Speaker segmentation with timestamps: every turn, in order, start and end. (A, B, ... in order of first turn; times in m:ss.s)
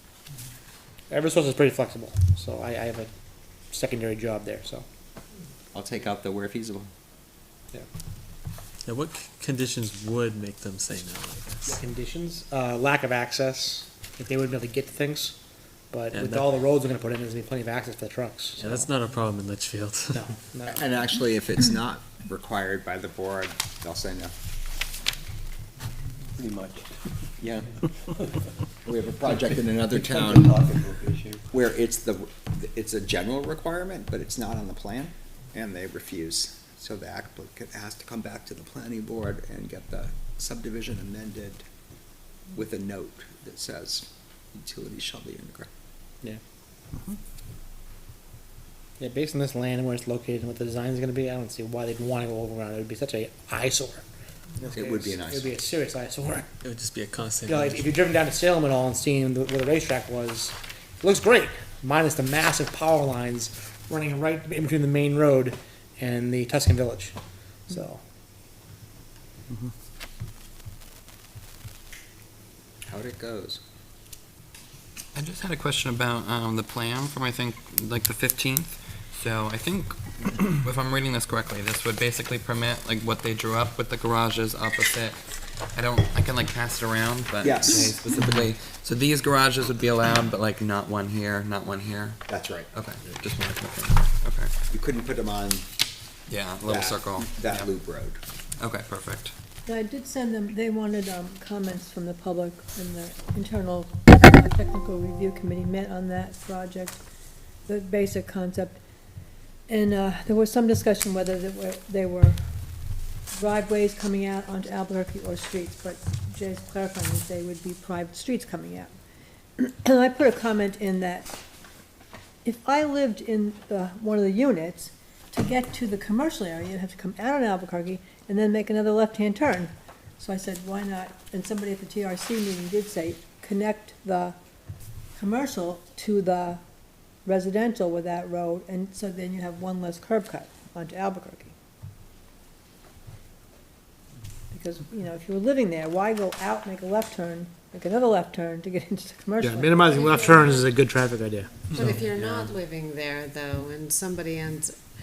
0:01.1-0:03.1 A
0:03.7-0:04.8 A
0:05.7-0:06.9 B
0:08.8-0:11.8 C
0:11.7-0:15.4 A
0:15.9-0:18.9 A
0:16.1-0:16.6 C
0:18.6-0:20.3 C
0:20.1-0:20.9 A
0:20.7-0:24.3 B
0:26.3-0:27.0 D
0:27.4-0:27.7 B
0:28.8-0:30.5 B
0:29.9-0:31.5 D
0:31.5-0:41.6 B
0:42.5-0:45.7 B
0:49.0-0:54.0 A
0:54.6-0:55.5 B
0:54.6-0:56.5 A
0:56.6-0:57.9 C
0:57.4-1:08.0 A
1:12.9-1:13.6 B
1:15.1-1:25.2 E
1:25.7-1:34.5 E
1:27.4-1:28.0 B
1:32.3-1:32.7 B
1:34.7-1:35.6 B
1:36.3-1:37.7 E
1:36.7-1:38.2 B
1:38.6-1:39.3 E
1:39.6-1:47.0 F
1:47.7-1:48.8 F
1:49.7-1:52.4 F
1:53.3-1:58.9 F
1:59.6-2:01.3 F
2:02.4-2:14.4 F
2:15.2-2:16.6 F
2:17.2-2:21.5 F
2:24.5-2:30.7 F
2:29.4-2:31.7 A
2:31.7-2:34.8 G
2:31.7-2:32.0 C